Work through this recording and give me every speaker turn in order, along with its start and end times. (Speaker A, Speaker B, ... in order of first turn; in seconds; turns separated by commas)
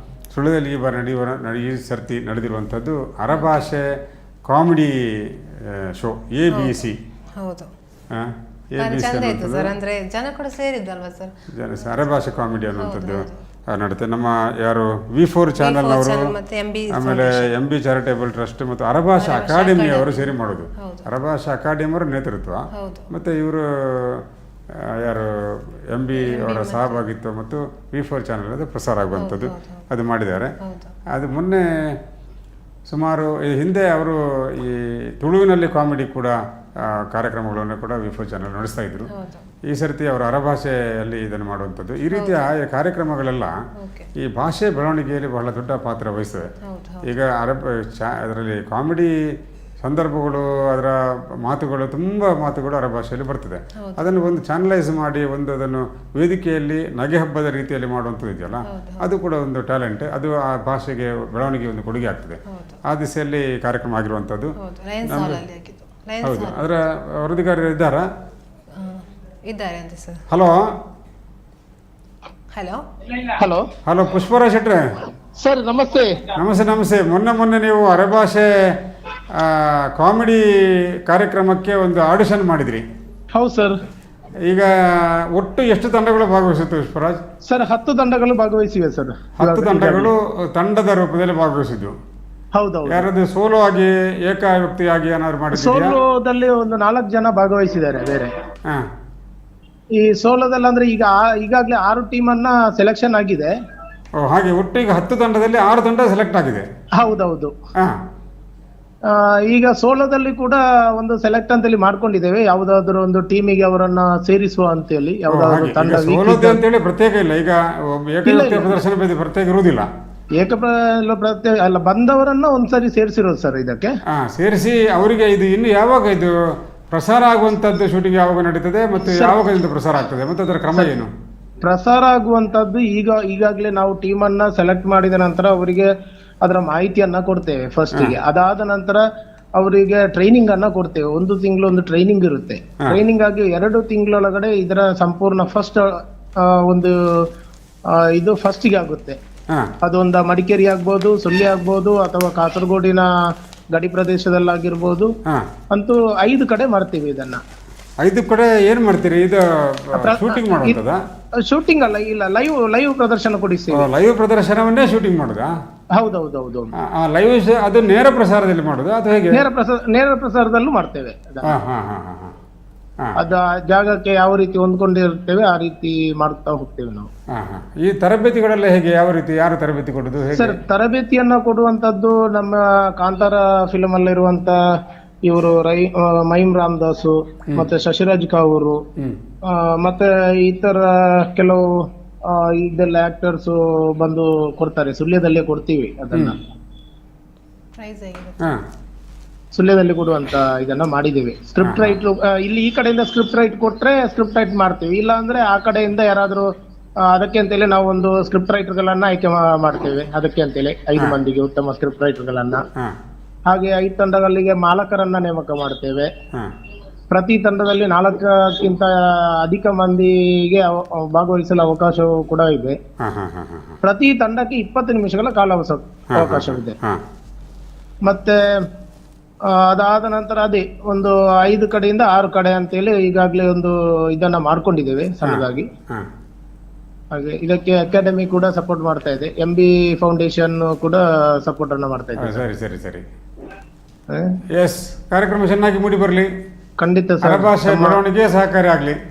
Speaker A: 0.3-3.9, Speaker B: 3.3-3.7, Speaker A: 4.5-4.9, Speaker A: 6.0-7.0, Speaker B: 6.6-7.7, Speaker A: 8.1-9.7, Speaker B: 8.8-11.3, Speaker A: 11.6-16.2, Speaker B: 12.8-13.4, Speaker B: 15.6-17.5, Speaker A: 16.9-24.2, Speaker B: 19.2-21.1, Speaker B: 22.7-23.1, Speaker A: 24.9-25.3, Speaker A: 25.9-30.5, Speaker B: 26.1-27.1, Speaker B: 29.1-29.8, Speaker B: 30.6-30.9, Speaker A: 31.1-31.6, Speaker A: 32.9-36.4, Speaker A: 37.0-39.1, Speaker B: 39.1-39.5, Speaker A: 39.7-43.5, Speaker B: 42.1-42.4, Speaker B: 43.8-44.1, Speaker A: 44.2-46.5, Speaker B: 46.6-47.1, Speaker A: 47.0-49.1, Speaker A: 49.8-64.5, Speaker B: 58.7-59.1, Speaker B: 62.5-62.8, Speaker B: 64.6-66.6, Speaker A: 65.1-65.4, Speaker A: 66.2-68.1, Speaker B: 68.8-70.2, Speaker A: 70.3-70.6, Speaker B: 72.5-72.8, Speaker C: 73.3-73.7, Speaker A: 73.9-74.8, Speaker C: 75.4-76.3, Speaker A: 76.4-78.5, Speaker A: 79.4-80.4, Speaker A: 81.1-82.8, Speaker C: 83.3-83.8, Speaker A: 84.5-87.2, Speaker C: 87.5-90.1, Speaker A: 89.4-92.0, Speaker C: 92.6-93.1, Speaker A: 92.9-96.0, Speaker C: 95.5-98.3, Speaker C: 100.0-103.5, Speaker A: 104.2-106.7, Speaker C: 107.0-107.5, Speaker C: 109.1-116.6, Speaker A: 115.3-119.9, Speaker C: 118.2-118.8, Speaker C: 120.4-123.9, Speaker A: 124.1-126.3, Speaker A: 126.9-131.1, Speaker C: 129.1-129.4, Speaker C: 131.6-135.9, Speaker C: 136.4-139.0, Speaker C: 139.6-147.2, Speaker C: 147.9-149.2, Speaker C: 149.8-153.1, Speaker C: 153.7-155.1, Speaker C: 155.7-157.4, Speaker A: 158.0-161.0, Speaker C: 159.9-160.8, Speaker C: 161.5-163.9, Speaker A: 163.7-165.5, Speaker C: 165.9-166.7, Speaker A: 166.8-169.5, Speaker C: 169.3-171.5, Speaker A: 171.4-172.3, Speaker C: 173.2-177.1, Speaker A: 177.3-180.6, Speaker C: 180.3-184.6, Speaker C: 185.3-188.8, Speaker C: 189.5-191.7, Speaker C: 192.3-196.4, Speaker B: 197.8-198.4, Speaker C: 199.5-206.5, Speaker A: 201.6-202.0, Speaker C: 207.1-212.6, Speaker C: 213.5-216.1, Speaker C: 217.1-222.8, Speaker A: 223.0-223.8, Speaker C: 223.8-226.8, Speaker A: 226.1-227.0, Speaker C: 228.1-228.4, Speaker C: 229.5-235.7, Speaker A: 235.3-236.1, Speaker C: 237.1-242.4, Speaker A: 242.2-243.0, Speaker A: 244.6-246.3, Speaker C: 246.8-248.0, Speaker A: 247.2-249.0